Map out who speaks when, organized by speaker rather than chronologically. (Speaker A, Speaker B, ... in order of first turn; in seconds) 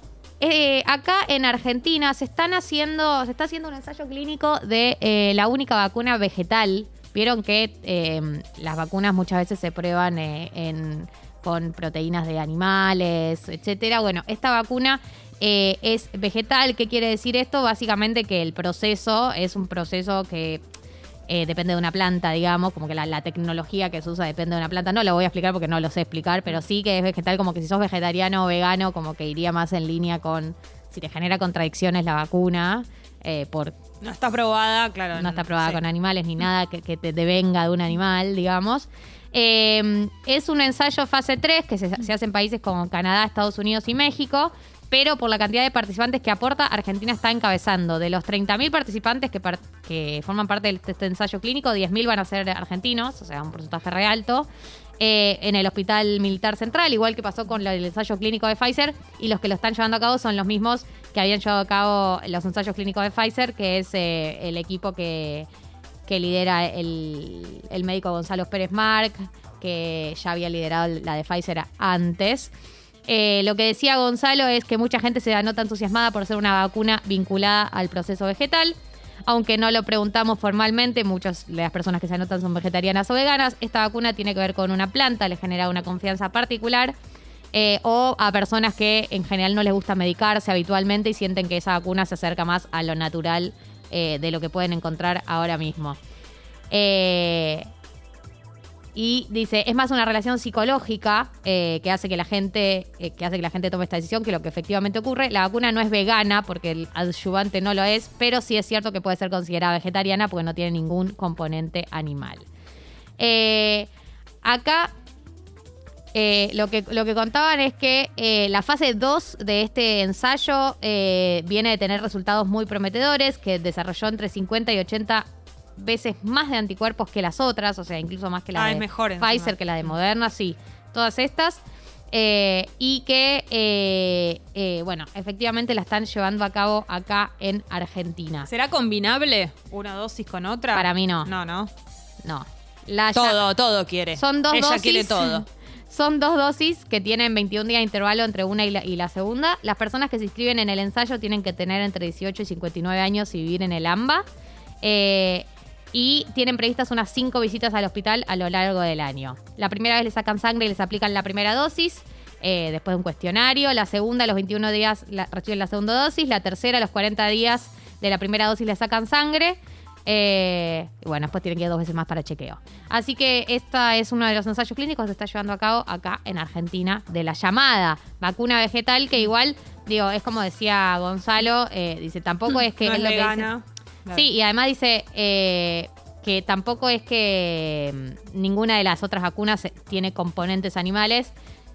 Speaker A: 0.4-20.6, 21.3-33.8, 35.1-54.5, 55.0-65.5, 66.0-72.5, 73.1-78.7, 79.3-86.9, 87.5-96.0, 96.7-97.7, 98.9-112.5, 113.2-113.9, 114.4-114.9, 116.1-125.2, 125.8-138.5, 140.7-141.3, 142.2-143.4, 144.2-154.2, 154.8-183.5, 184.1-191.3
Speaker B: 34.0-35.8, 128.5-129.5, 138.5-141.7, 143.1-145.4, 182.5-184.3